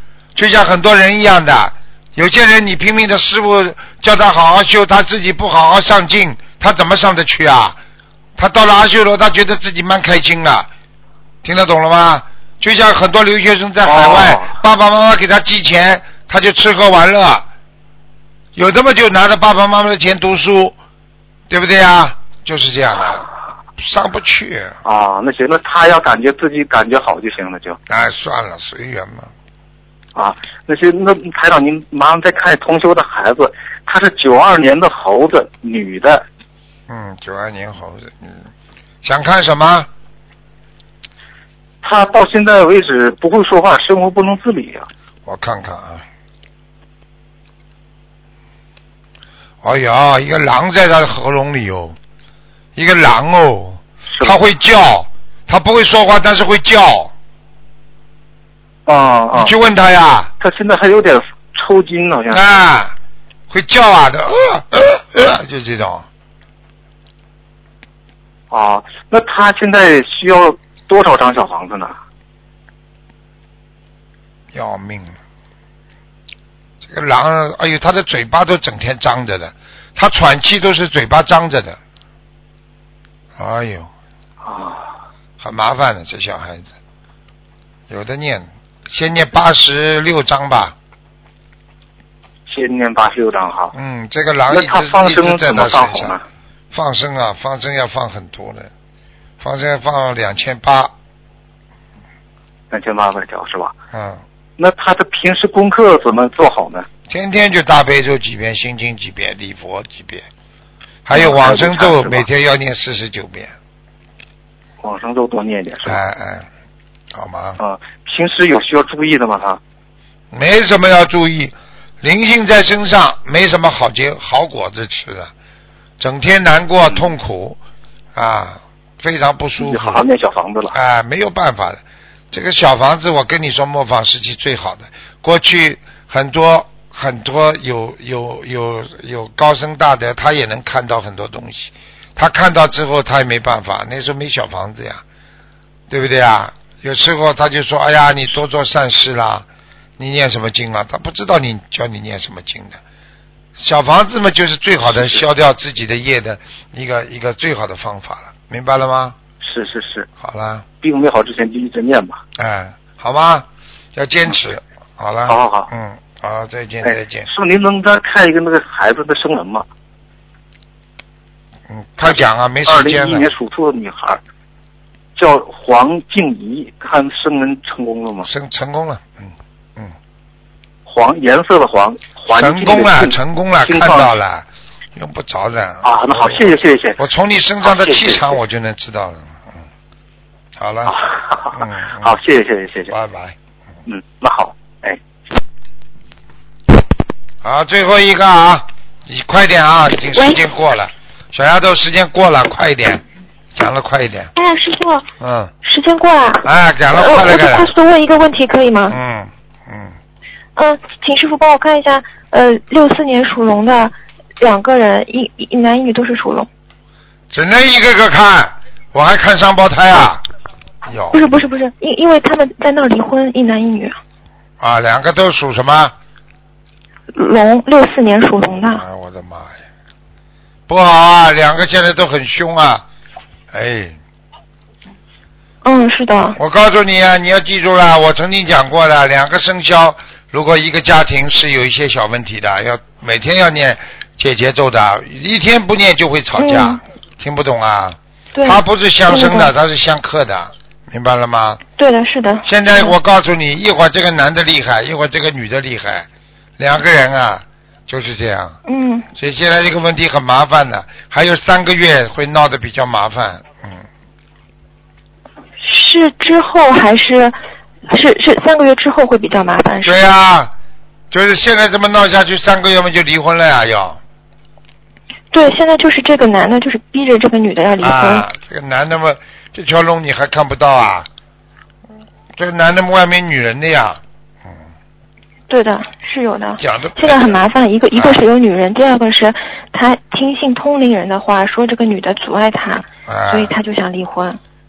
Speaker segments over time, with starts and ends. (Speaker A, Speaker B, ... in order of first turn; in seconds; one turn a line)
Speaker A: 0.3-7.8
Speaker A: 8.4-10.7
Speaker A: 11.4-17.5
Speaker B: 13.8-14.5
Speaker A: 18.6-20.8
Speaker A: 21.5-23.2
Speaker A: 23.8-24.8
Speaker B: 24.8-27.8
Speaker A: 27.9-29.3
Speaker B: 30.1-36.2
Speaker A: 36.9-38.5
Speaker A: 39.0-39.9
Speaker B: 41.8-44.9
Speaker A: 45.3-46.0
Speaker A: 49.6-52.0
Speaker A: 52.8-57.1
Speaker B: 54.1-54.4
Speaker B: 58.9-59.5
Speaker A: 59.4-60.3
Speaker B: 60.4-62.4
Speaker A: 62.3-63.0
Speaker A: 63.5-66.1
Speaker B: 68.5-72.0
Speaker A: 74.5-75.2
Speaker A: 76.8-81.8
Speaker A: 83.4-83.9
Speaker B: 84.4-84.9
Speaker A: 85.4-86.7
Speaker A: 87.9-90.8
Speaker B: 92.5-93.7
Speaker A: 93.7-96.2
Speaker B: 94.5-96.2
Speaker A: 96.7-98.7
Speaker A: 99.4-100.9
Speaker B: 102.7-103.7
Speaker A: 103.9-104.2
Speaker B: 104.6-106.9
Speaker A: 107.1-110.3
Speaker A: 111.0-113.5
Speaker B: 111.1-112.3
Speaker B: 114.8-116.0
Speaker A: 115.9-116.5
Speaker A: 117.1-117.6
Speaker B: 117.6-119.6
Speaker A: 120.3-125.3
Speaker A: 126.0-127.6
Speaker A: 128.2-130.0
Speaker B: 129.6-130.8
Speaker A: 130.7-131.8
Speaker A: 132.3-145.0
Speaker A: 145.9-149.5
Speaker A: 150.0-152.8
Speaker A: 153.6-159.2
Speaker B: 154.9-155.2
Speaker B: 159.4-160.1
Speaker A: 160.2-160.7
Speaker B: 160.8-162.2
Speaker A: 162.4-167.3
Speaker B: 165.3-165.7
Speaker B: 166.8-169.7
Speaker A: 171.7-173.3
Speaker B: 172.0-174.2
Speaker B: 175.2-178.3
Speaker A: 178.3-179.9
Speaker B: 180.9-184.1
Speaker A: 182.3-189.6
Speaker B: 185.8-187.0
Speaker B: 187.6-188.4
Speaker A: 190.6-190.9
Speaker B: 190.9-192.9
Speaker A: 191.5-192.1
Speaker A: 192.9-193.4
Speaker B: 193.9-195.0
Speaker A: 197.4-203.0
Speaker A: 203.6-204.3
Speaker C: 204.4-205.1
Speaker A: 205.2-205.5
Speaker C: 205.6-209.0
Speaker A: 206.4-207.7
Speaker A: 208.9-209.9
Speaker C: 210.6-216.5
Speaker A: 217.3-220.2
Speaker A: 220.8-221.3
Speaker C: 221.1-224.0
Speaker A: 224.6-225.9
Speaker C: 227.1-228.8
Speaker A: 228.6-229.6
Speaker A: 230.7-232.8
Speaker A: 233.5-234.0
Speaker C: 235.6-236.4
Speaker A: 236.4-251.6
Speaker C: 246.4-246.8
Speaker C: 248.3-249.5
Speaker C: 251.8-252.9
Speaker A: 252.4-256.1
Speaker A: 256.6-258.6
Speaker C: 258.7-259.1
Speaker A: 259.1-263.8
Speaker C: 265.6-267.4
Speaker C: 267.9-270.0
Speaker A: 269.8-270.5
Speaker A: 271.1-274.0
Speaker C: 275.3-278.3
Speaker A: 277.8-281.1
Speaker A: 282.4-284.6
Speaker C: 285.5-294.4
Speaker A: 286.6-288.3
Speaker A: 293.1-293.5